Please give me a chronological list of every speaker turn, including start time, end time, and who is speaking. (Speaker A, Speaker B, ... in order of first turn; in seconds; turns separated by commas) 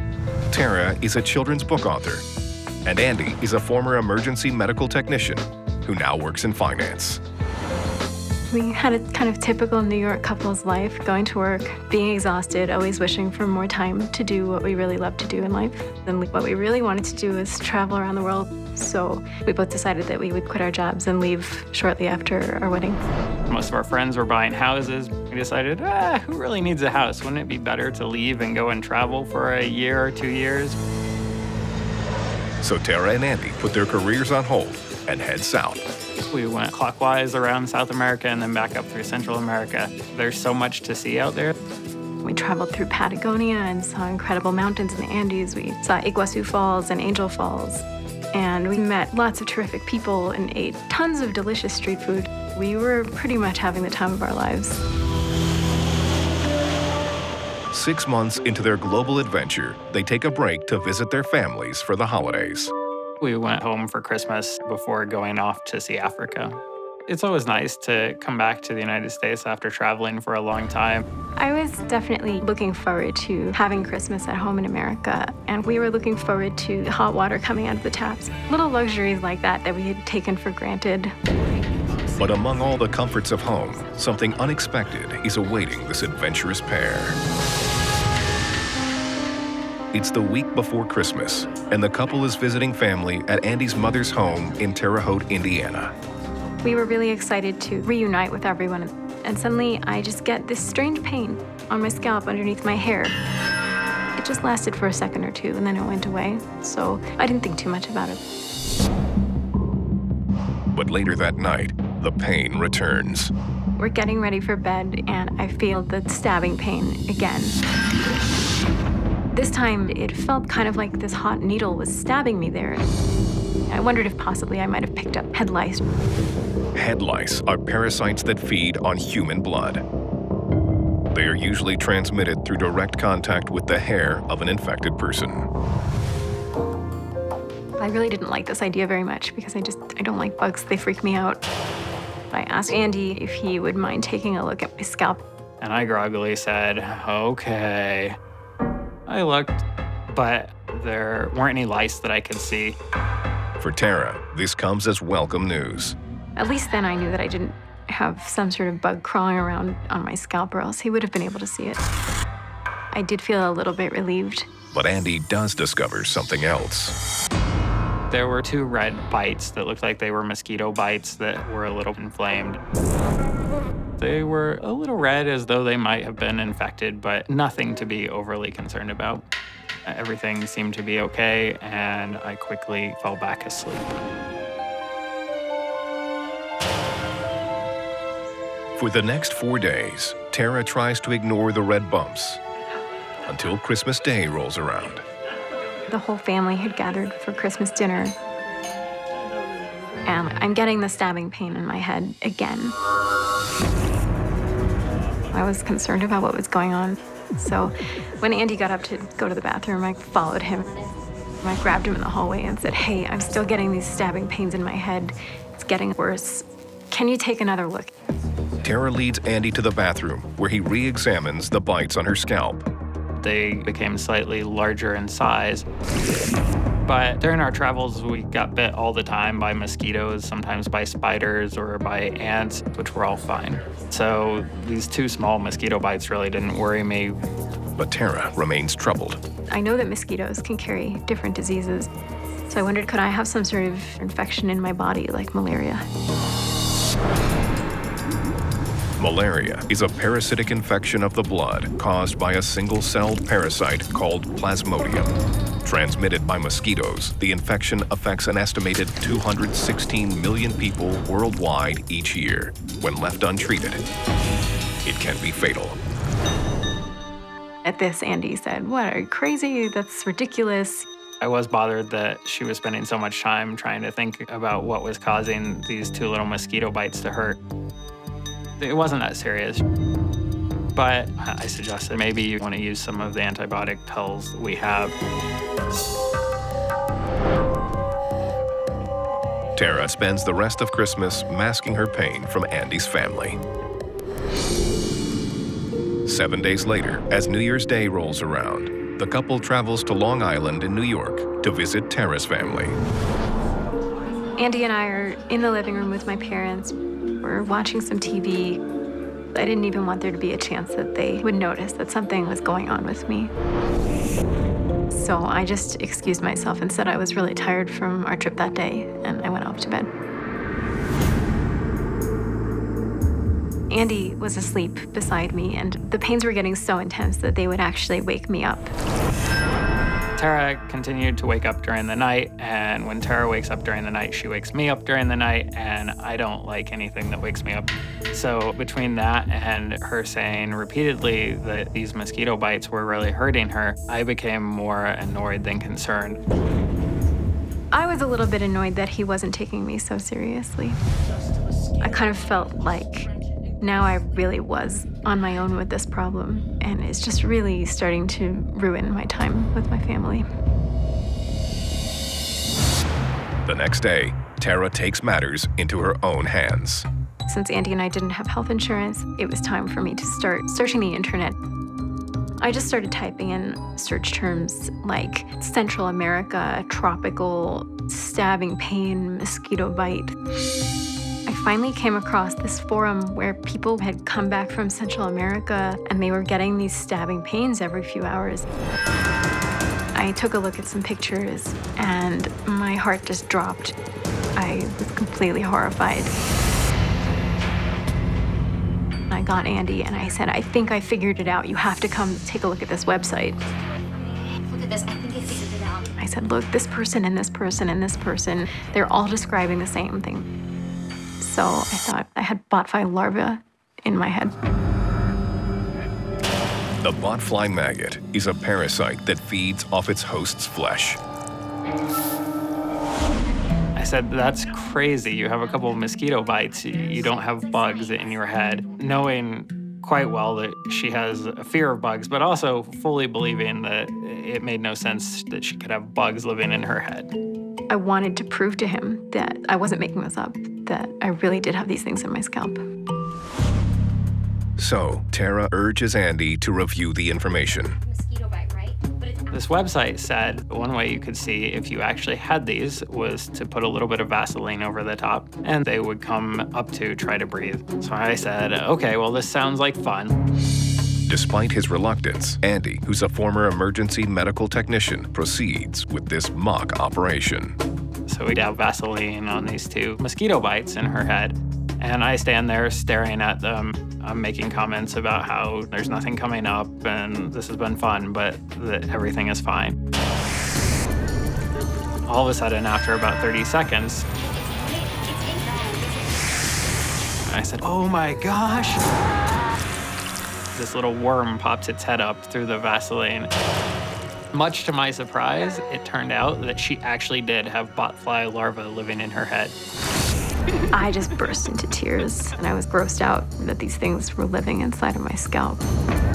Speaker A: 0.5-2.2, Speaker A: 2.8-7.2, Speaker B: 8.5-23.0, Speaker C: 23.5-30.8, Speaker A: 32.6-35.8, Speaker C: 36.3-41.5, Speaker B: 42.2-54.8, Speaker A: 57.7-62.7, Speaker C: 63.2-71.0, Speaker B: 71.4-81.1, Speaker A: 82.2-87.2, Speaker A: 89.9-95.9, Speaker B: 96.6-103.2, Speaker B: 104.2-108.2, Speaker A: 110.7-113.3, Speaker B: 113.8-117.6, Speaker B: 119.3-122.9, Speaker B: 123.7-125.8, Speaker A: 126.7-129.8, Speaker A: 131.1-135.5, Speaker B: 137.8-141.4, Speaker B: 142.3-145.2, Speaker C: 145.6-148.2, Speaker C: 149.1-152.8, Speaker A: 153.6-155.9, Speaker B: 156.3-161.8, Speaker B: 162.9-164.5, Speaker A: 164.7-166.9, Speaker C: 168.1-172.6, Speaker C: 174.0-179.2, Speaker C: 179.8-183.9, Speaker A: 188.8-192.4, Speaker A: 193.3-195.0, Speaker B: 195.9-198.2, Speaker B: 200.1-202.7, Speaker B: 205.3-210.7, Speaker B: 211.4-217.9, Speaker A: 218.6-222.7, Speaker C: 223.2-225.7, Speaker C: 226.8-237.2, Speaker A: 237.8-239.2, Speaker B: 239.5-241.9, Speaker B: 242.5-245.8, Speaker A: 249.0-263.8, Speaker A: 264.8-265.8, Speaker B: 267.6-270.9, Speaker C: 271.2-277.4, Speaker C: 278.6-279.6, Speaker C: 280.7-284.9, Speaker A: 289.6-293.4, Speaker A: 296.1-302.8, Speaker B: 304.4-308.6, Speaker B: 309.3-313.3, Speaker B: 314.9-319.9, Speaker B: 323.7-328.7, Speaker C: 330.2-346.2, Speaker B: 347.7-350.8, Speaker B: 351.8-353.1, Speaker B: 353.6-360.2, Speaker A: 363.4-366.8, Speaker B: 367.3-371.3, Speaker B: 372.4-380.1, Speaker B: 381.3-388.4, Speaker B: 389.9-393.7, Speaker B: 394.4-396.1, Speaker B: 399.1-403.4, Speaker D: 404.2-405.9, Speaker B: 406.0-410.3, Speaker B: 411.2-414.3, Speaker A: 416.8-421.0, Speaker C: 423.8-437.1, Speaker D: 426.8-428.7, Speaker B: 437.7-442.6, Speaker A: 444.6-447.8, Speaker D: 447.8-449.5, Speaker C: 449.3-460.2, Speaker A: 461.1-467.6, Speaker C: 468.1-479.8, Speaker C: 482.1-484.1, Speaker D: 484.3-486.2, Speaker C: 487.2-488.8, Speaker C: 490.5-493.3, Speaker C: 494.3-499.5, Speaker B: 500.7-505.6